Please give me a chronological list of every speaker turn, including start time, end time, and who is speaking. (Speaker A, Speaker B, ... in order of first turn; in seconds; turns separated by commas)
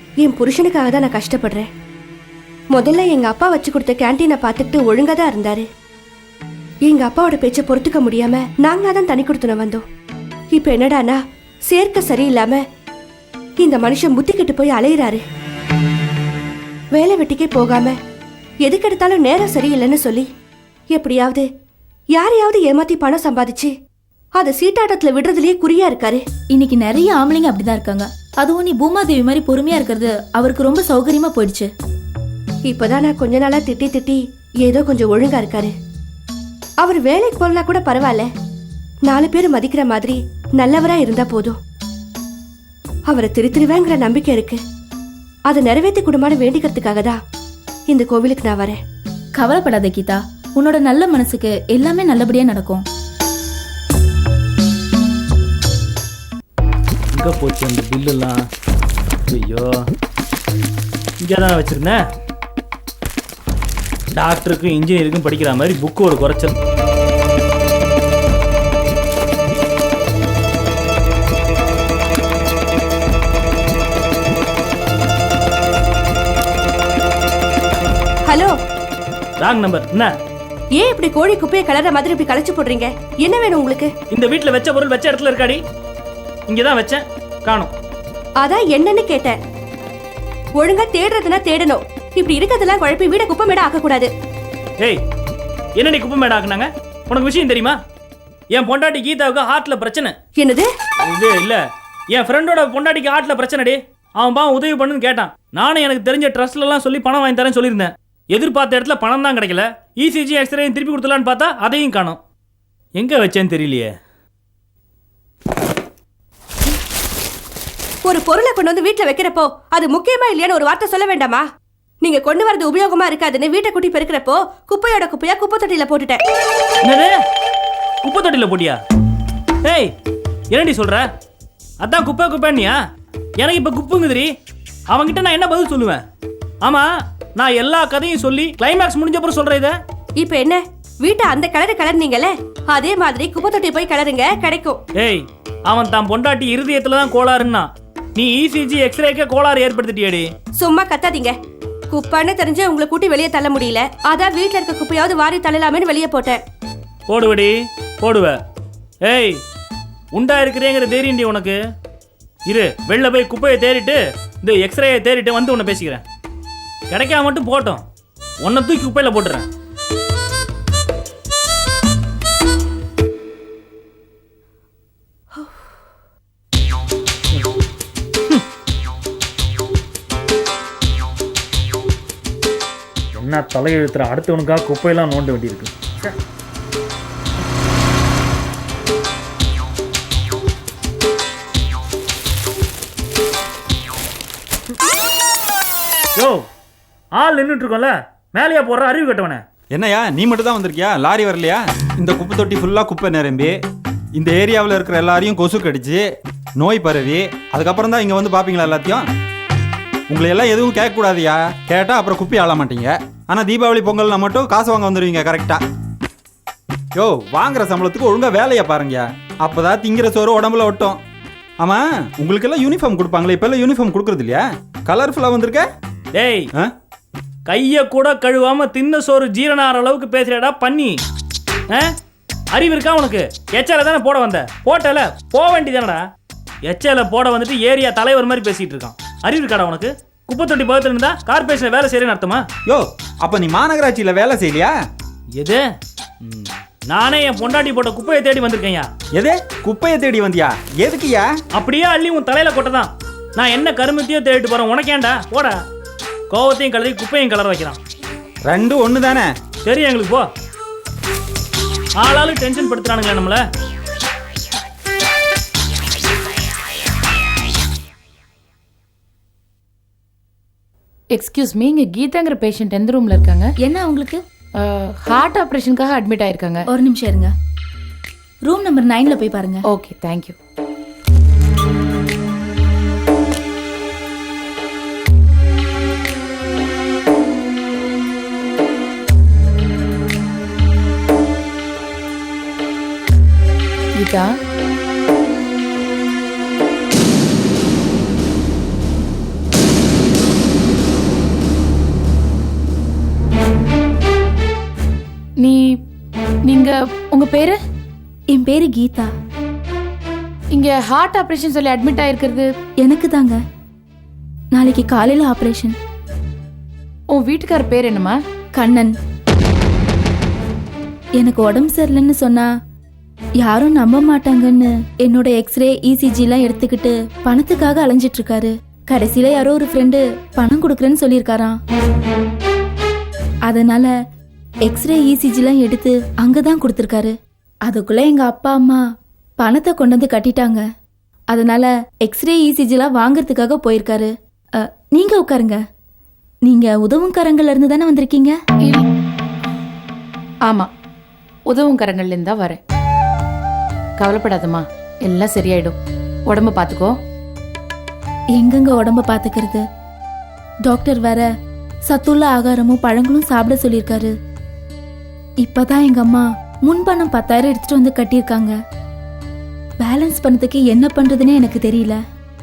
Speaker A: 0.2-1.7, Speaker A: 2.7-5.6, Speaker A: 6.9-9.8, Speaker A: 10.5-11.2, Speaker A: 11.7-12.6, Speaker A: 13.6-15.2, Speaker A: 16.9-17.9, Speaker A: 18.6-20.3, Speaker A: 20.9-21.4, Speaker A: 22.1-23.7, Speaker A: 24.4-26.2, Speaker B: 26.5-31.7, Speaker A: 32.6-35.7, Speaker A: 36.8-38.3, Speaker A: 39.1-41.5, Speaker A: 43.1-44.6, Speaker A: 45.5-47.2, Speaker A: 47.9-48.8, Speaker B: 49.4-52.8, Speaker C: 57.1-58.4, Speaker C: 59.3-59.8, Speaker C: 61.2-62.0, Speaker C: 64.1-66.5, Speaker A: 78.2-78.5, Speaker C: 79.4-80.1, Speaker A: 80.8-83.9, Speaker C: 84.1-85.6, Speaker C: 86.5-87.7, Speaker A: 88.4-89.3, Speaker A: 90.6-94.1, Speaker C: 95.8-97.8, Speaker C: 98.5-100.1, Speaker A: 100.3-100.7, Speaker C: 101.0-112.2, Speaker C: 113.0-113.9, Speaker A: 118.0-121.4, Speaker A: 122.0-126.2, Speaker C: 126.8-127.2, Speaker C: 128.0-128.8, Speaker C: 129.6-129.9, Speaker C: 130.5-131.0, Speaker C: 131.8-132.8, Speaker C: 133.4-134.3, Speaker C: 134.9-136.0, Speaker C: 137.4-139.8, Speaker A: 140.2-144.8, Speaker C: 145.0-150.3, Speaker A: 150.6-151.3, Speaker A: 151.9-156.4, Speaker C: 157.1-158.4, Speaker C: 159.0-159.4, Speaker C: 160.1-161.6, Speaker C: 162.5-166.0, Speaker C: 166.9-167.8, Speaker C: 168.4-169.5, Speaker C: 183.2-186.1, Speaker C: 197.2-199.4, Speaker D: 199.7-203.6, Speaker D: 204.1-206.0, Speaker D: 206.6-209.1, Speaker D: 210.1-215.6, Speaker D: 216.9-221.0, Speaker D: 221.6-225.6, Speaker C: 226.1-226.5, Speaker C: 227.5-231.0, Speaker C: 232.5-236.0, Speaker C: 236.7-242.4, Speaker D: 242.7-244.7, Speaker C: 246.2-248.9, Speaker D: 249.1-251.3, Speaker C: 251.5-255.6, Speaker C: 256.3-257.8, Speaker D: 258.5-259.3, Speaker C: 259.6-260.3, Speaker C: 262.0-263.4, Speaker E: 271.1-273.5, Speaker B: 273.6-274.2, Speaker E: 274.6-276.6, Speaker B: 276.7-277.3, Speaker B: 278.4-279.6, Speaker E: 279.7-280.4, Speaker E: 293.9-294.3, Speaker E: 305.4-305.7, Speaker E: 306.4-307.6, Speaker B: 308.3-309.1, Speaker E: 310.5-312.5, Speaker B: 312.8-313.4, Speaker B: 314.5-315.7, Speaker E: 317.1-318.2, Speaker B: 318.6-318.9, Speaker B: 321.2-322.5, Speaker B: 323.4-331.6, Speaker B: 333.5-333.9, Speaker B: 334.6-337.1, Speaker B: 337.6-338.8, Speaker B: 339.4-340.6, Speaker B: 341.3-345.6, Speaker B: 346.4-348.3, Speaker E: 351.5-352.6, Speaker E: 354.0-355.7, Speaker E: 356.3-356.9, Speaker B: 358.4-359.6, Speaker B: 360.6-361.2, Speaker B: 361.9-364.1, Speaker B: 365.4-368.5, Speaker B: 369.8-372.0